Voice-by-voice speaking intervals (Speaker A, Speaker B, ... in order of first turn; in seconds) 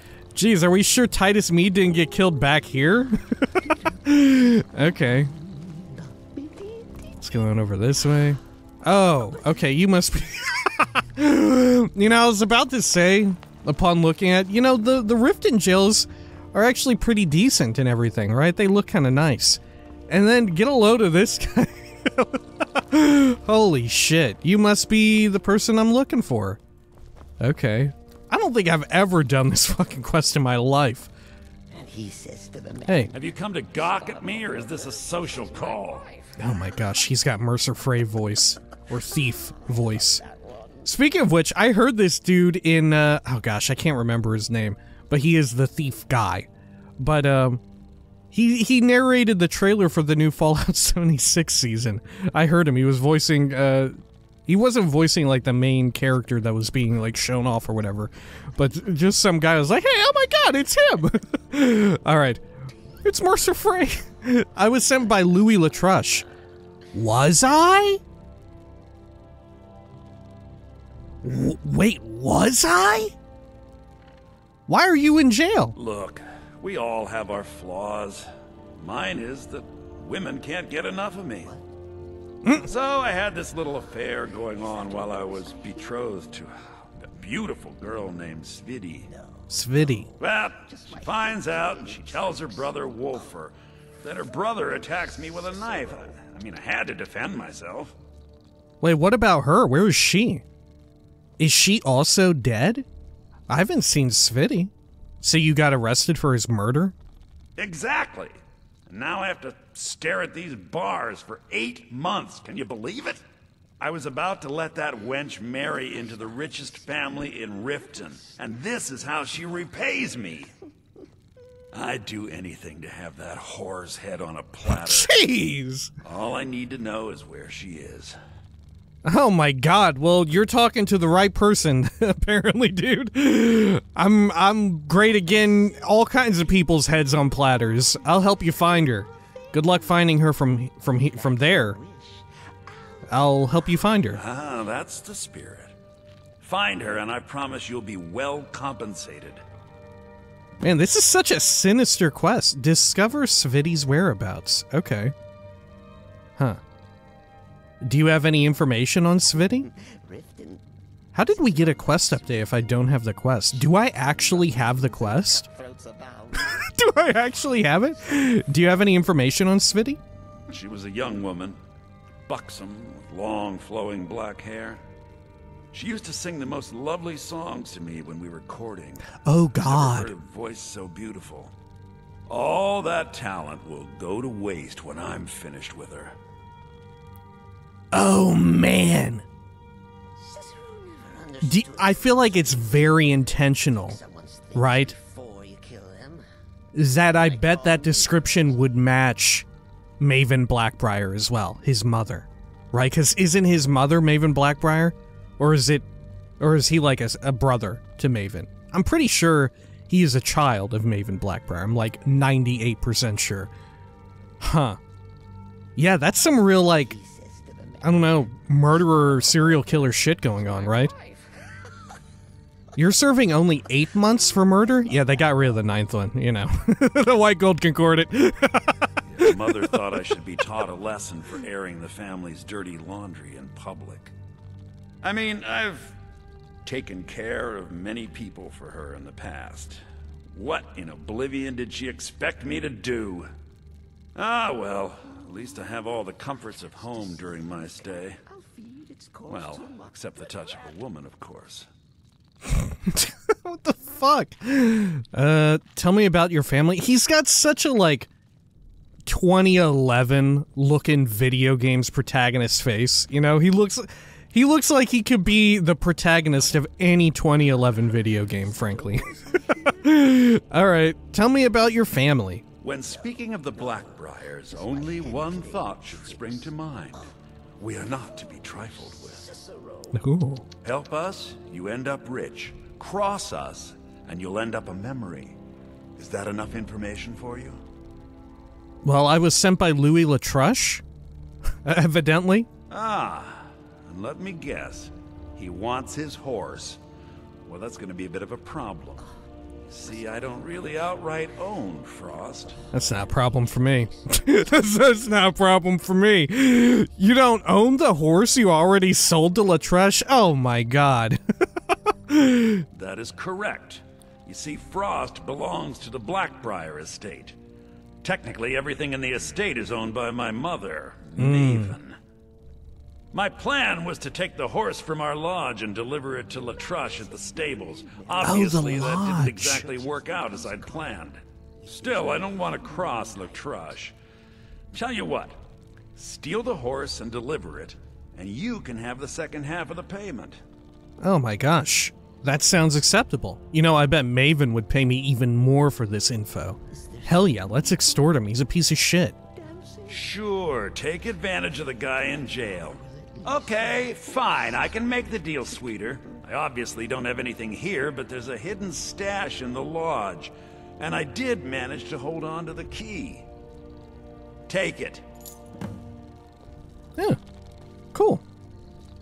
Speaker A: 0.3-3.4, 4.0-5.3, 7.2-26.6, 27.4-31.1, 32.9-33.1, 36.4-40.2, 40.9-47.6, 48.3-62.4, 63.0-66.2, 66.9-68.0, 71.2-73.1, 74.7-75.8, 89.5-90.1, 98.8-100.4, 101.4-102.9, 103.5-107.0, 124.7-125.9, 129.0-141.8, 143.1-144.2, 150.6-155.1, 157.8-159.7, 161.1-165.5, 166.4-170.0, 179.2-180.1, 187.9-189.2, 191.4-194.0, 194.5-195.0, 196.7-199.4, 200.0-205.9, 206.4-213.5, 214.4-214.8, 215.8-217.0, 217.8-220.9, 222.8-229.8, 252.5-258.1, 259.1-272.4, 279.9-280.5, 288.8-290.8, 291.6-292.5, 302.7-311.2, 312.1-312.6, 321.2-321.8, 328.2-329.7, 341.0-349.2, 367.9-368.2
Speaker B: 3.5-4.1, 4.8-7.1, 31.7-37.0, 38.9-41.0, 84.2-86.1, 89.1-93.4, 94.6-96.2, 115.5-118.6, 119.3-120.2, 135.2-136.2, 137.9-140.1, 140.9-144.1, 159.3-166.7, 190.2-196.3, 197.0-198.6, 216.7-219.7, 220.3-221.6, 225.1-225.4, 245.0-245.6, 246.3-250.8, 268.1-269.9, 272.8-277.1, 277.8-280.0, 299.8-300.7, 302.6-304.1, 326.3-331.1, 331.6-333.8, 346.7-348.1, 349.3-350.2, 352.3-355.0
Speaker C: 33.1-36.1, 75.8-78.3, 78.8-81.5, 82.6-86.5, 87.0-89.1, 90.2-98.0, 107.6-108.3, 108.9-113.2, 113.8-120.5, 121.7-125.1, 126.0-128.2, 144.1-145.7, 146.4-149.4, 170.5-171.6, 172.3-174.8, 175.7-181.5, 182.3-186.2, 229.1-234.1, 235.0-236.0, 236.7-243.3, 244.2-248.2, 249.3-251.7, 272.6-277.0, 277.6-279.3, 280.6-285.4, 286.0-287.6, 292.7-296.8, 297.4-299.1, 299.7-302.6, 312.7-317.4, 318.0-322.0, 323.1-331.2, 331.8-333.9, 334.7-335.4, 336.0-340.4, 349.9-363.3, 364.5-365.0